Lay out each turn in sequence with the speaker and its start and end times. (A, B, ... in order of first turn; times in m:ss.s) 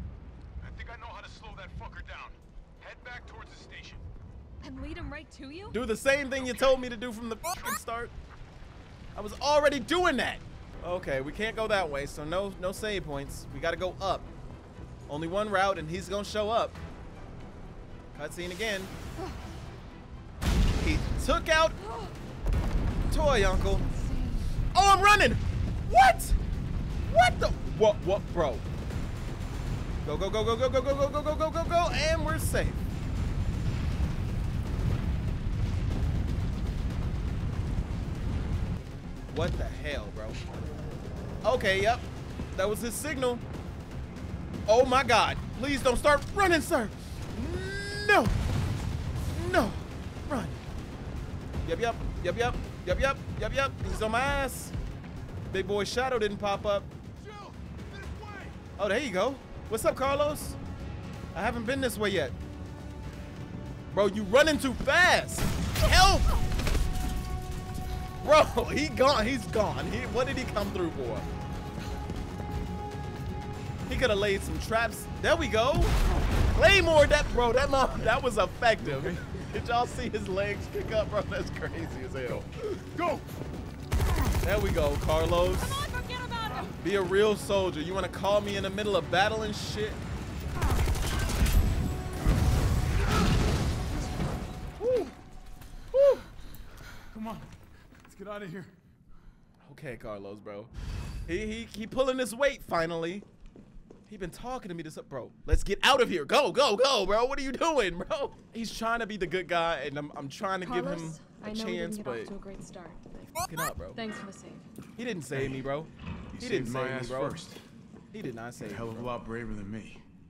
0:00.6-0:04.0 A
0:04.6-0:05.8 B
0:05.7-0:08.1 C
0:06.3-0:06.9 A
0:07.5-0:07.8 A
0:09.1-0:14.3 C
0:15.1-0:16.8 C
0:18.1-0:18.9 C
0:20.8-0:21.8 C
0:21.9-0:22.1 B
0:23.1-0:23.8 C
0:23.4-0:24.5 B
0:24.7-0:26.4 C
0:27.1-0:28.6 C
0:30.0-0:32.8 C
0:39.3-0:40.4 C
0:41.4-0:43.4 C
0:44.7-0:48.4 C
0:49.3-0:50.6 C
0:51.6-0:54.8 C
0:55.5-0:56.9 C
0:57.2-0:58.5 D
0:58.8-1:00.6 C
1:01.3-1:02.4 C
1:03.9-1:06.3 C
1:08.2-1:11.3 C
1:13.9-1:16.0 C
1:16.5-1:22.5 C
1:18.8-1:19.2 D
1:22.6-1:23.2 D
1:24.4-1:25.8 C
1:25.4-1:26.7 B
1:26.8-1:30.0 C
1:34.8-1:35.1 C
1:35.9-1:36.2 C
1:37.1-1:37.5 D
1:38.0-1:38.7 D
1:39.6-1:40.7 C
1:41.3-1:43.2 C
1:44.1-1:52.3 C
1:50.6-1:53.4 B
1:53.5-1:54.0 C
1:53.9-1:54.6 B
1:55.0-1:57.4 C
1:55.3-1:55.7 D
1:56.3-1:57.6 D
1:58.1-1:59.1 C
1:58.6-2:00.0 D